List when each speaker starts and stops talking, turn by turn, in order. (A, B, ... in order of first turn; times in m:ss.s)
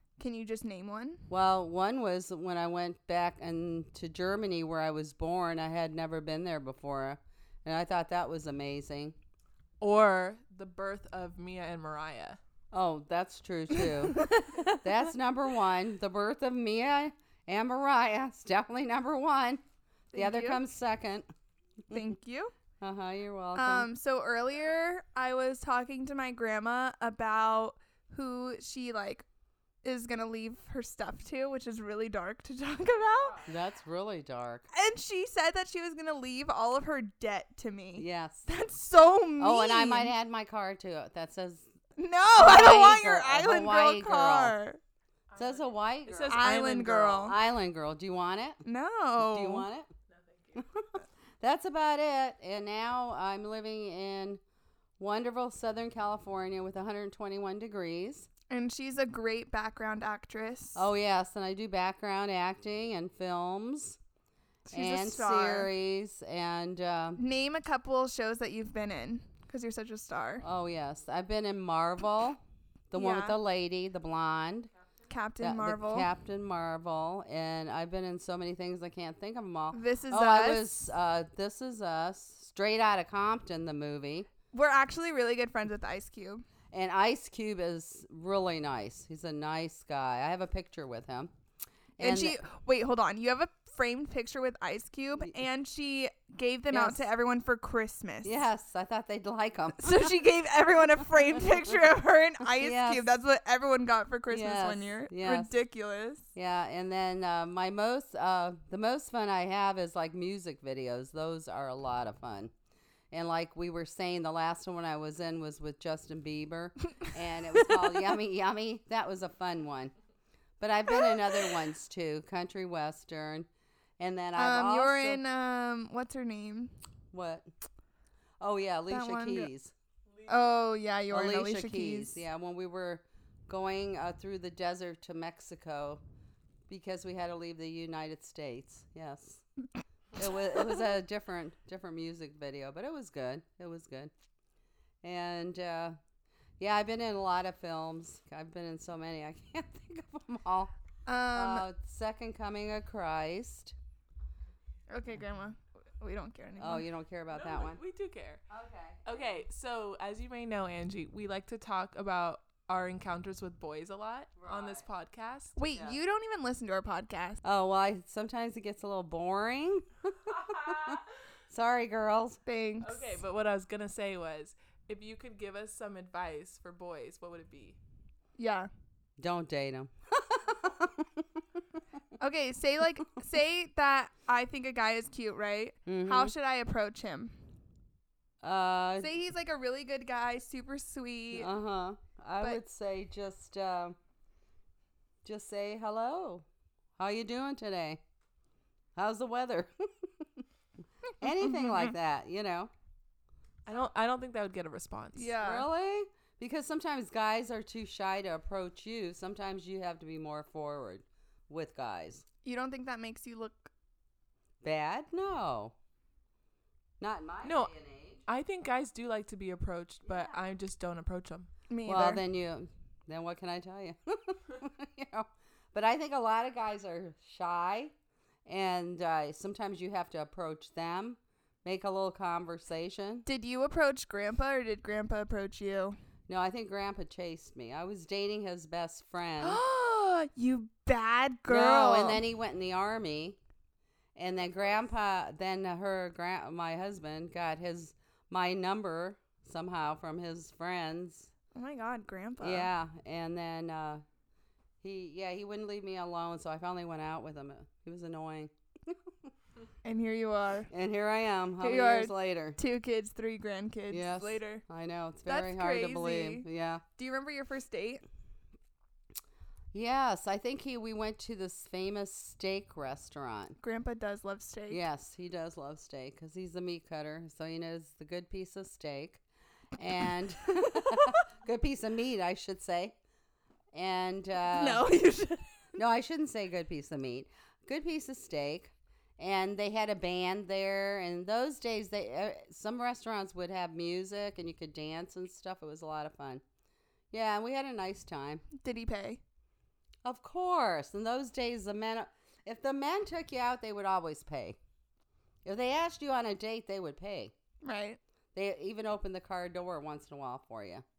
0:00.2-0:01.3 A
0:01.3-0:09.1 B
0:09.8-0:12.4 C
0:12.7-0:19.6 B
0:14.1-0:14.8 A
0:20.1-0:20.6 A
0:20.1-0:21.3 B
0:21.9-0:22.5 A
0:22.8-0:23.9 B
0:23.5-0:29.2 A
0:29.8-0:33.4 A
0:32.9-0:33.5 C
0:33.4-0:34.6 B
0:34.7-0:40.1 A
0:38.0-0:38.4 B
0:39.4-0:41.7 B
0:42.0-0:44.8 A
0:42.3-0:44.6 B
0:45.3-0:47.2 C
0:45.4-0:48.6 B
0:46.3-0:47.4 A
0:48.6-0:49.7 A
0:49.2-0:49.9 B
0:50.1-0:50.7 C
0:50.5-0:54.4 B
0:55.0-0:58.3 B
0:58.5-1:00.9 A
1:00.7-1:04.0 B
1:04.7-1:05.7 A
1:04.7-1:07.2 B
1:07.2-1:10.4 A
1:10.4-1:12.4 B
1:12.9-1:14.7 B
1:12.9-1:13.4 A
1:15.1-1:16.1 A
1:15.4-1:24.3 B
1:19.7-1:20.8 A
1:24.5-1:26.4 A
1:26.7-1:31.3 B
1:32.0-1:32.4 B
1:32.0-1:38.5 A
1:36.7-1:37.1 B
1:38.2-1:40.1 B
1:39.8-1:46.3 A
1:42.4-1:43.1 B
1:44.3-1:45.5 B
1:46.3-1:52.5 B
1:53.1-1:59.9 B
2:00.6-2:03.5 B
2:04.0-2:05.2 B
2:04.4-2:06.7 A
2:07.1-2:07.5 B
2:08.4-2:09.7 B
2:08.9-2:09.5 A
2:10.3-2:12.2 A
2:11.1-2:16.0 B
2:16.7-2:19.4 B
2:20.2-2:24.1 B
2:25.0-2:26.0 B
2:26.6-2:30.7 B
2:31.0-2:31.7 A
2:31.3-2:33.7 B
2:34.9-2:36.9 A
2:36.6-2:37.8 B
2:37.3-2:38.4 C
2:38.5-2:39.2 B
2:39.0-2:45.6 C
2:44.4-2:44.8 B
2:45.6-2:47.4 A
2:47.4-2:52.4 B
2:50.7-2:50.9 C
2:52.4-2:53.2 A
2:52.8-2:57.8 C
2:58.4-2:58.7 A
2:59.2-3:01.8 B
3:02.2-3:07.4 A
3:05.8-3:06.3 B
3:08.4-3:09.1 B
3:09.0-3:11.5 A
3:11.3-3:14.0 B
3:15.2-3:16.4 B
3:17.0-3:18.0 B
3:18.9-3:20.4 B
3:21.2-3:22.7 B
3:21.3-3:21.9 A
3:23.6-3:25.3 C
3:25.1-3:25.7 A
3:25.4-3:32.2 B
3:32.4-3:33.7 A
3:34.6-3:35.7 B
3:37.0-3:38.2 B
3:37.4-3:37.7 C
3:38.2-3:41.5 C
3:40.0-3:40.4 B
3:41.7-3:42.2 A
3:41.8-3:47.9 B
3:48.4-3:53.2 B
3:53.2-3:56.0 A
3:56.3-3:59.6 B
3:59.4-4:02.2 A
4:01.5-4:03.4 B
4:04.2-4:11.3 B
4:11.5-4:12.7 A
4:12.4-4:14.0 B
4:14.8-4:19.3 B
4:19.8-4:20.7 A
4:20.7-4:22.6 B
4:21.6-4:24.6 A
4:23.9-4:26.8 B
4:25.2-4:26.4 A
4:27.0-4:28.0 A
4:29.7-4:33.6 B
4:33.6-4:34.8 A
4:34.7-4:39.2 B
4:39.8-4:43.0 B
4:40.7-4:41.2 A
4:43.7-4:44.8 B
4:44.5-4:45.4 A
4:45.8-4:56.4 B
4:57.1-4:58.4 B
4:58.5-4:59.2 A
5:00.0-5:04.6 B
5:05.4-5:07.3 B
5:07.6-5:08.0 A
5:08.3-5:10.8 B